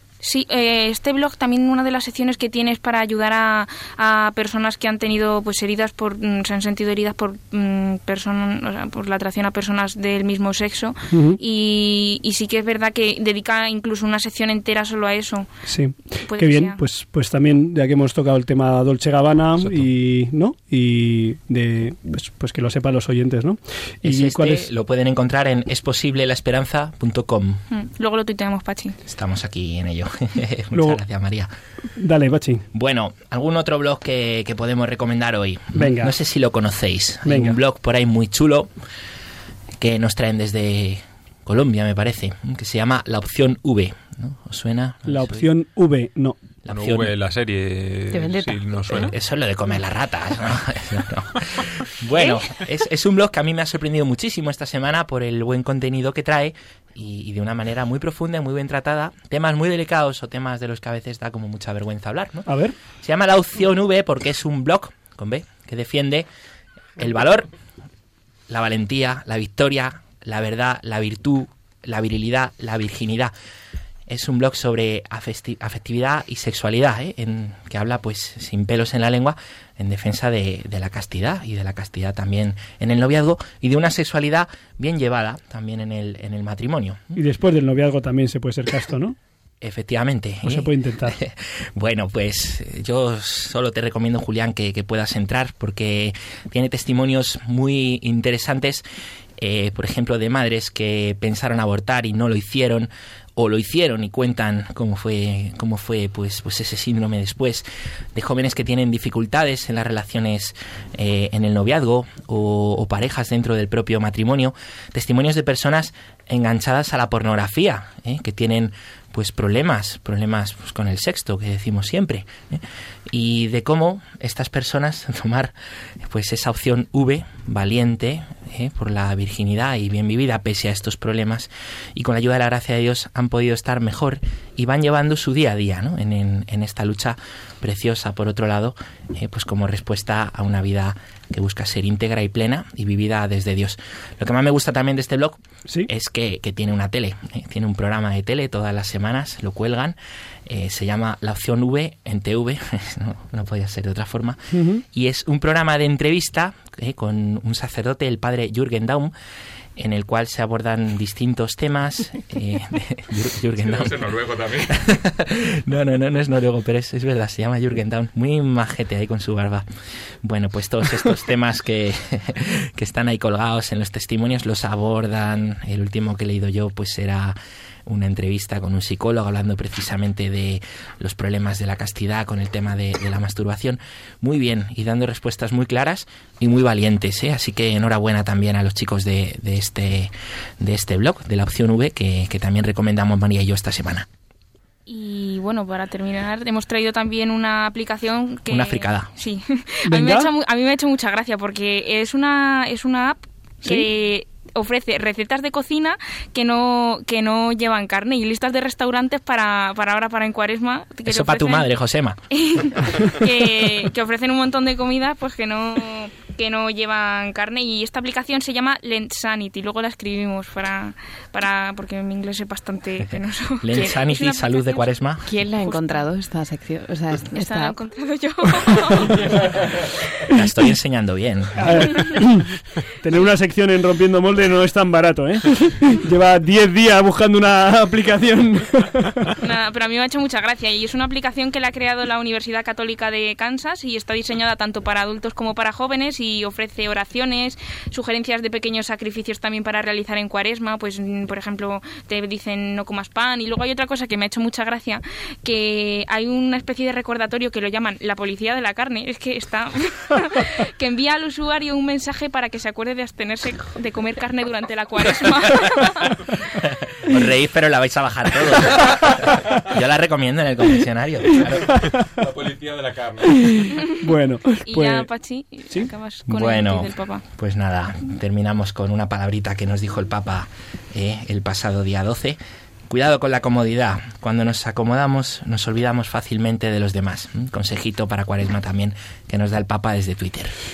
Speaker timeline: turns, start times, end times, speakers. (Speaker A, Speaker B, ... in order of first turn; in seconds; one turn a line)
Speaker A: 0.2-15.5
Speaker B: 11.1-11.4
Speaker B: 15.7-24.7
Speaker A: 16.2-16.8
Speaker C: 24.0-27.6
Speaker A: 27.7-29.0
Speaker C: 29.1-31.5
Speaker B: 30.7-31.0
Speaker B: 32.0-32.6
Speaker C: 32.7-38.7
Speaker B: 35.8-36.1
Speaker B: 37.2-37.6
Speaker C: 39.8-45.5
Speaker B: 45.0-46.4
Speaker C: 46.6-47.1
Speaker D: 46.7-49.1
Speaker E: 48.1-48.8
Speaker C: 48.9-62.5
Speaker E: 52.2-52.4
Speaker B: 62.5-62.8
Speaker C: 63.0-66.3
Speaker C: 67.0-67.5
Speaker C: 68.5-73.3
Speaker C: 74.1-87.2
Speaker B: 87.2-89.2
Speaker C: 89.6-98.8
Speaker B: 90.4-91.2
Speaker C: 99.4-159.1
Speaker B: 154.5-154.8
Speaker C: 159.8-169.7
Speaker D: 164.1-164.4
Speaker C: 170.2-194.1
Speaker A: 194.8-211.7
Speaker C: 198.4-199.1
Speaker B: 199.9-200.3
Speaker C: 211.0-212.2
Speaker A: 212.3-224.9
Speaker C: 223.6-225.2
Speaker E: 225.2-227.8
Speaker A: 225.6-226.1
Speaker A: 227.3-229.4
Speaker C: 230.3-232.0
Speaker B: 231.6-232.5
Speaker B: 233.0-239.3
Speaker A: 239.4-266.2
Speaker C: 267.0-272.0
Speaker B: 273.4-275.1
Speaker A: 273.7-273.9
Speaker A: 274.6-277.2
Speaker C: 276.3-282.4
Speaker C: 282.9-290.5